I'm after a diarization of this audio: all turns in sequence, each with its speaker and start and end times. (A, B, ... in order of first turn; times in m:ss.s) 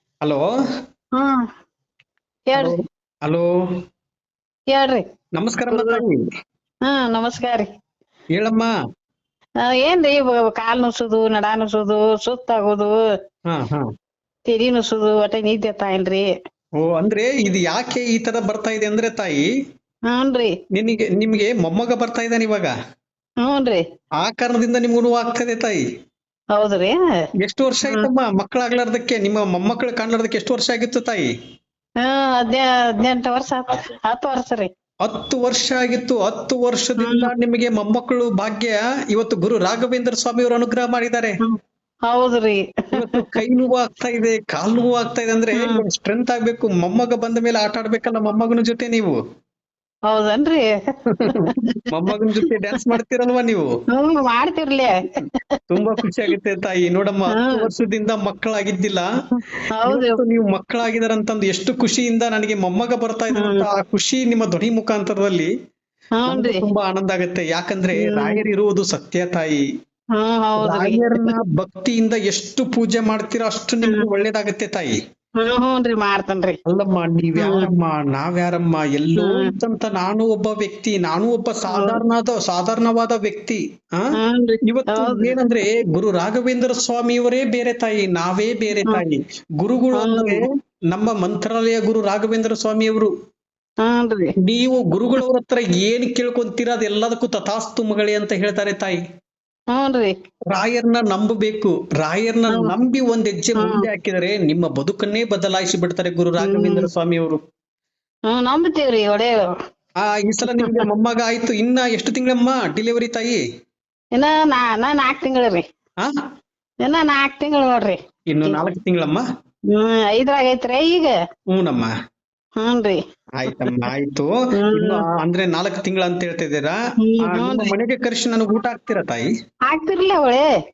0:01.2-0:01.4 A
0:02.5-0:02.8 A
0:02.6-0:03.5 B
0:04.7-0:05.0 A
0:05.4-0:06.2 B
0:05.7-0:06.0 A
0:06.9-0:07.7 A
0:08.4-0:08.7 B
0:09.6-0:13.0 A
0:13.5-0:13.8 B
0:14.5-0:16.3 A
0:16.8-0:19.4 B
0:20.1-0:20.5 A
0:20.7-0:22.7 B
0:23.4-0:23.8 A
0:24.2-0:25.8 B
0:26.5-0:27.0 A
0:27.4-0:31.3 B
0:32.0-0:34.7 A
0:35.0-0:41.4 B
0:37.0-0:37.3 A
0:42.1-0:43.2 A
0:43.0-0:49.2 B
0:45.6-0:45.8 A
0:50.1-0:50.6 A
0:51.3-0:51.7 A
0:51.9-0:53.6 B
0:53.9-0:55.1 A
0:55.7-0:59.1 B
0:57.3-0:57.7 A
0:59.8-1:00.2 A
0:59.8-1:05.5 B
1:03.4-1:03.7 A
1:06.2-1:06.6 A
1:06.3-1:09.6 B
1:08.0-1:08.4 A
1:10.2-1:11.4 A
1:10.6-1:15.0 B
1:15.4-1:16.6 A
1:16.7-1:24.1 B
1:17.4-1:17.7 A
1:19.2-1:19.5 A
1:21.7-1:22.0 A
1:24.2-1:25.3 A
1:24.6-1:33.1 B
1:30.0-1:30.4 A
1:33.8-1:34.3 A
1:34.4-1:39.0 B
1:39.7-1:40.1 A
1:40.5-1:47.4 B
1:43.6-1:43.9 A
1:46.4-1:46.9 A
1:48.3-1:49.5 A
1:50.1-1:53.4 B
1:50.5-1:50.8 A
1:54.2-1:55.6 A
1:56.8-1:58.6 A
1:58.3-1:59.2 B
1:59.7-2:01.1 A
2:01.5-2:01.9 B
2:02.6-2:03.0 A
2:03.4-2:09.3 B
2:04.6-2:05.0 A
2:07.0-2:07.7 A
2:09.7-2:10.5 A